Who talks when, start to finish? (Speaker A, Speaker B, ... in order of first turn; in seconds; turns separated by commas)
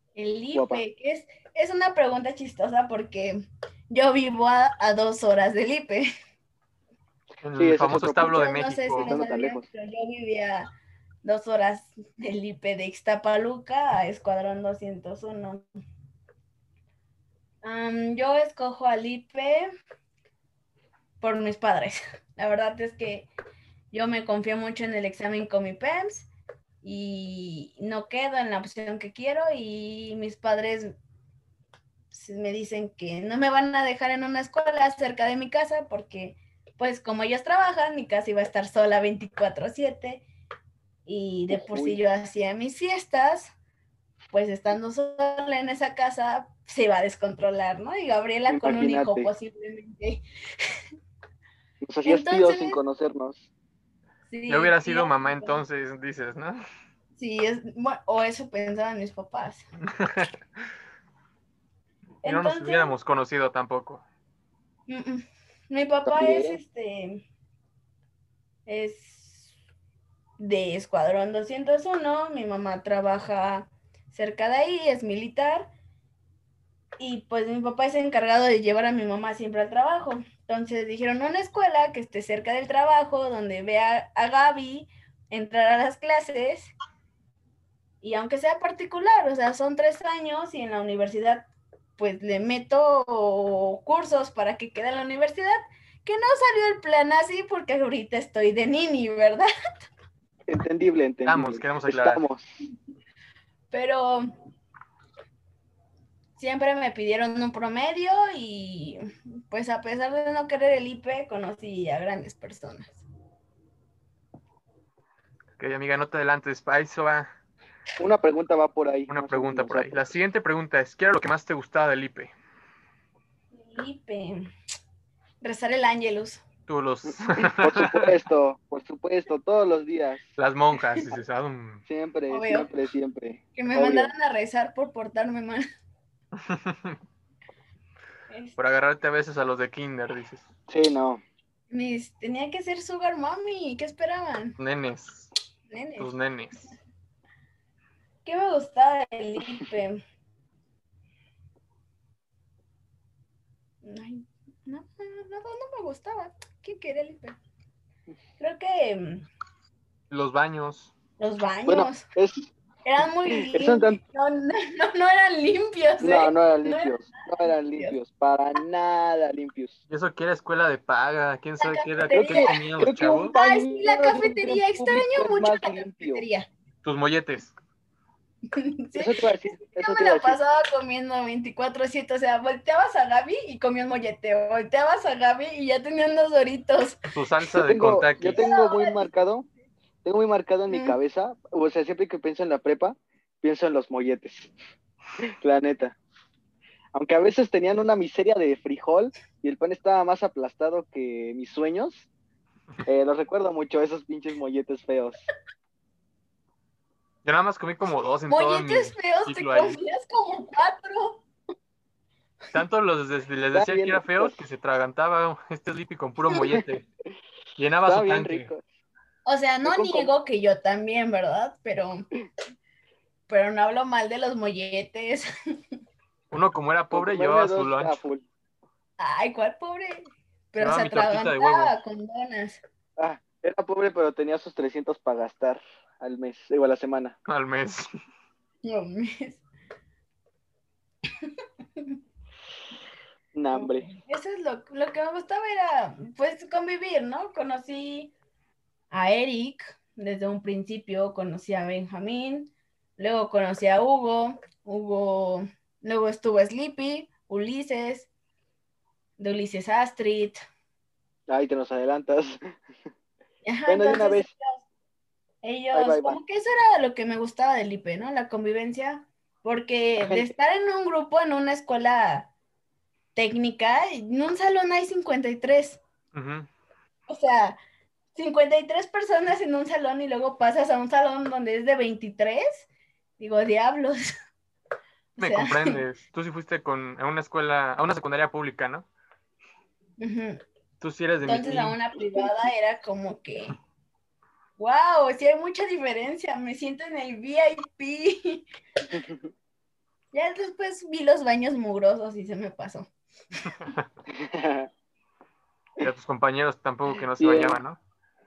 Speaker A: 0.2-6.1, Speaker B: 0.5-0.8, Speaker C: 7.4-9.2, Speaker B: 7.5-9.7, Speaker A: 8.2-10.7, Speaker A: 11.2-15.7, Speaker A: 17.6-19.7, Speaker A: 21.2-23.3, Speaker A: 23.9-26.3, Speaker A: 26.8-30.9, Speaker A: 32.1-40.2, Speaker A: 41.1-43.5, Speaker B: 41.5-42.0, Speaker A: 44.3-50.8, Speaker B: 48.5-49.3, Speaker B: 51.8-53.5, Speaker A: 52.1-52.8, Speaker A: 54.3-55.6, Speaker C: 54.5-56.6, Speaker A: 57.2-59.7, Speaker C: 60.0-60.3, Speaker A: 62.2-62.9, Speaker C: 62.2-64.0, Speaker A: 64.9-67.2, Speaker B: 66.0-66.6, Speaker A: 68.7-69.5, Speaker A: 70.4-75.7, Speaker A: 77.0-86.7, Speaker A: 88.0-99.9, Speaker B: 100.5-102.5, Speaker C: 101.3-102.2, Speaker A: 103.7-104.3, Speaker A: 106.4-113.0, Speaker C: 115.6-117.3, Speaker B: 118.0-120.1, Speaker C: 119.1-122.3, Speaker A: 123.5-124.5, Speaker A: 125.4-126.4, Speaker C: 126.7-128.2, Speaker B: 127.3-130.3, Speaker C: 130.4-131.8, Speaker B: 131.9-134.1, Speaker A: 132.3-132.7, Speaker A: 133.6-135.6, Speaker C: 136.4-137.0, Speaker A: 138.3-138.6, Speaker C: 138.6-140.5, Speaker B: 140.7-141.2, Speaker A: 141.7-144.6, Speaker C: 144.6-145.3, Speaker A: 145.7-146.1, Speaker C: 146.0-146.7, Speaker A: 148.2-150.0, Speaker A: 153.8-157.4, Speaker A: 158.4-159.3, Speaker C: 160.1-160.9, Speaker A: 161.2-162.1, Speaker B: 161.7-162.5, Speaker A: 162.8-168.0, Speaker B: 163.5-164.0, Speaker B: 166.0-169.8, Speaker C: 169.9-173.3, Speaker A: 171.6-176.5, Speaker B: 172.1-176.2, Speaker C: 176.8-177.5, Speaker A: 178.5-187.0, Speaker B: 178.9-180.4, Speaker C: 187.1-188.4, Speaker B: 187.6-189.5, Speaker A: 188.3-189.0, Speaker B: 190.0-194.5, Speaker A: 190.7-191.0, Speaker B: 195.4-196.0, Speaker B: 196.9-202.1, Speaker B: 202.9-205.2, Speaker C: 207.2-209.8, Speaker A: 208.3-211.2, Speaker C: 212.5-216.9, Speaker B: 213.5-214.4, Speaker C: 217.6-218.5, Speaker B: 217.9-218.6, Speaker A: 219.3-222.1, Speaker B: 219.6-220.1, Speaker A: 223.3-225.3, Speaker C: 226.3-228.0, Speaker B: 226.9-228.3, Speaker A: 229.0-232.6, Speaker C: 230.6-231.8, Speaker B: 233.0-237.2, Speaker C: 237.3-237.9, Speaker A: 238.6-239.4, Speaker A: 241.2-242.0, Speaker B: 243.3-243.9, Speaker A: 243.5-248.1, Speaker A: 248.9-258.1, Speaker A: 259.2-260.4, Speaker B: 261.3-262.4, Speaker A: 263.4-264.6, Speaker B: 263.7-264.3, Speaker A: 265.4-272.3, Speaker B: 265.7-266.2, Speaker B: 270.0-270.3, Speaker A: 273.1-275.8, Speaker C: 276.1-276.5, Speaker A: 277.1-277.6, Speaker A: 278.1-282.7, Speaker A: 283.2-284.1, Speaker A: 285.2-285.8, Speaker C: 285.2-288.9, Speaker A: 290.0-290.4, Speaker C: 290.8-291.8, Speaker A: 291.2-293.6, Speaker A: 294.6-298.5, Speaker B: 298.9-299.3, Speaker A: 300.1-302.9, Speaker B: 304.1-304.7, Speaker C: 305.8-307.8, Speaker B: 307.2-307.6